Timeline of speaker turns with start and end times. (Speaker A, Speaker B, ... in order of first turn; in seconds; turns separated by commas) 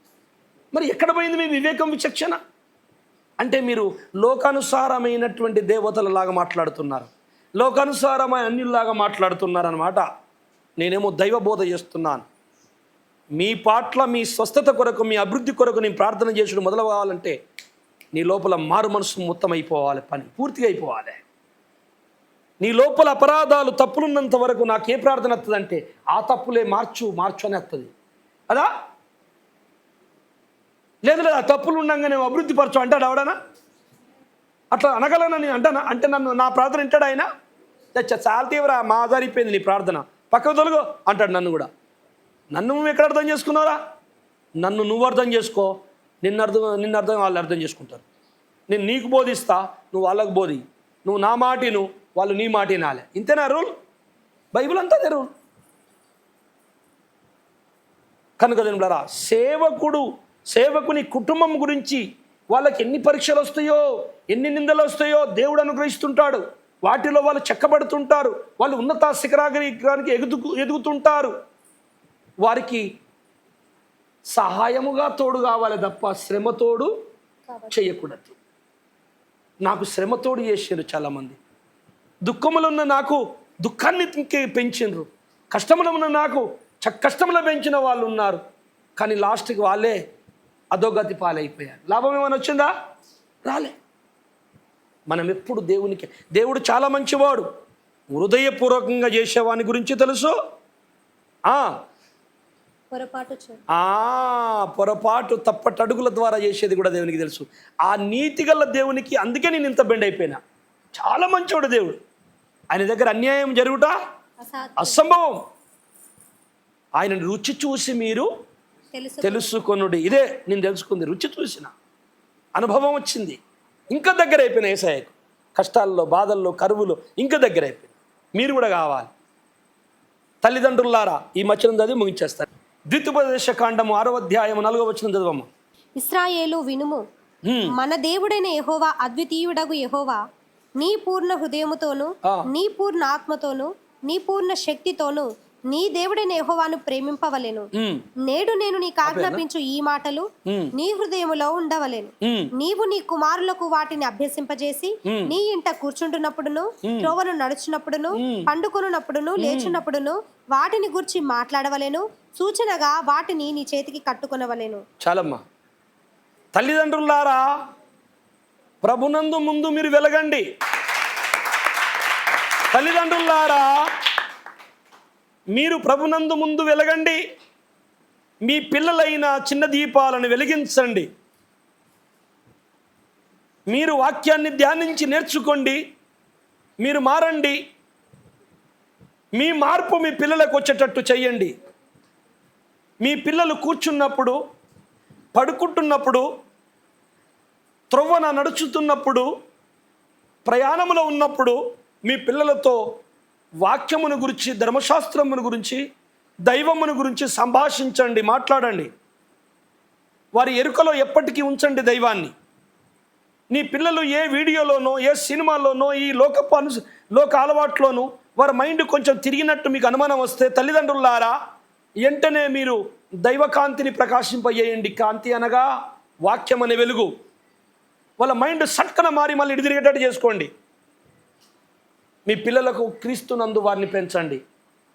Speaker A: 0.7-2.4, Speaker A: 3.4-10.0, Speaker A: 10.8-12.2, Speaker A: 13.3-17.4, Speaker A: 18.1-21.2, Speaker A: 22.6-27.9, Speaker A: 31.0-33.4, Speaker A: 34.7-37.3, Speaker A: 37.9-41.7, Speaker A: 42.5-43.8, Speaker A: 44.6-48.0, Speaker A: 48.7-53.7, Speaker A: 54.5-55.3, Speaker A: 58.4-71.3, Speaker A: 72.4-72.9, Speaker A: 74.3-76.9, Speaker B: 77.5-77.8, Speaker A: 77.7-78.4, Speaker A: 79.6-81.4, Speaker A: 82.2-88.4, Speaker A: 89.0-90.0, Speaker A: 90.7-92.7, Speaker A: 93.5-93.8, Speaker A: 95.1-97.5, Speaker A: 98.1-100.3, Speaker B: 102.9-103.6, Speaker A: 103.7-110.4, Speaker A: 111.0-112.0, Speaker A: 112.7-113.9, Speaker B: 114.4-115.0, Speaker A: 114.8-115.4, Speaker A: 117.0-118.3, Speaker B: 119.0-119.5, Speaker A: 119.2-121.7, Speaker A: 122.6-123.4, Speaker A: 123.9-129.1, Speaker A: 130.4-135.5, Speaker B: 136.0-137.0, Speaker A: 137.4-137.8, Speaker B: 137.7-140.2, Speaker B: 140.8-147.7, Speaker A: 147.8-148.1, Speaker B: 148.2-164.8, Speaker A: 149.1-149.4, Speaker A: 150.5-150.7, Speaker A: 152.2-152.5, Speaker A: 155.1-155.3, Speaker A: 156.8-157.1, Speaker A: 158.2-158.5, Speaker A: 159.4-159.8, Speaker A: 165.0-165.4, Speaker A: 166.6-167.5, Speaker A: 168.8-170.4, Speaker A: 172.7-173.9, Speaker A: 175.5-177.2, Speaker A: 178.4-181.1, Speaker A: 183.7-185.8, Speaker A: 186.8-187.6, Speaker A: 189.3-191.5, Speaker A: 193.0-194.4, Speaker A: 195.3-196.2, Speaker A: 197.9-199.3, Speaker A: 200.4-202.8, Speaker A: 203.6-205.8, Speaker A: 206.5-208.9, Speaker A: 210.3-212.3, Speaker A: 213.5-221.3, Speaker A: 222.0-225.7, Speaker A: 226.2-227.1, Speaker A: 228.2-230.5, Speaker A: 232.3-234.4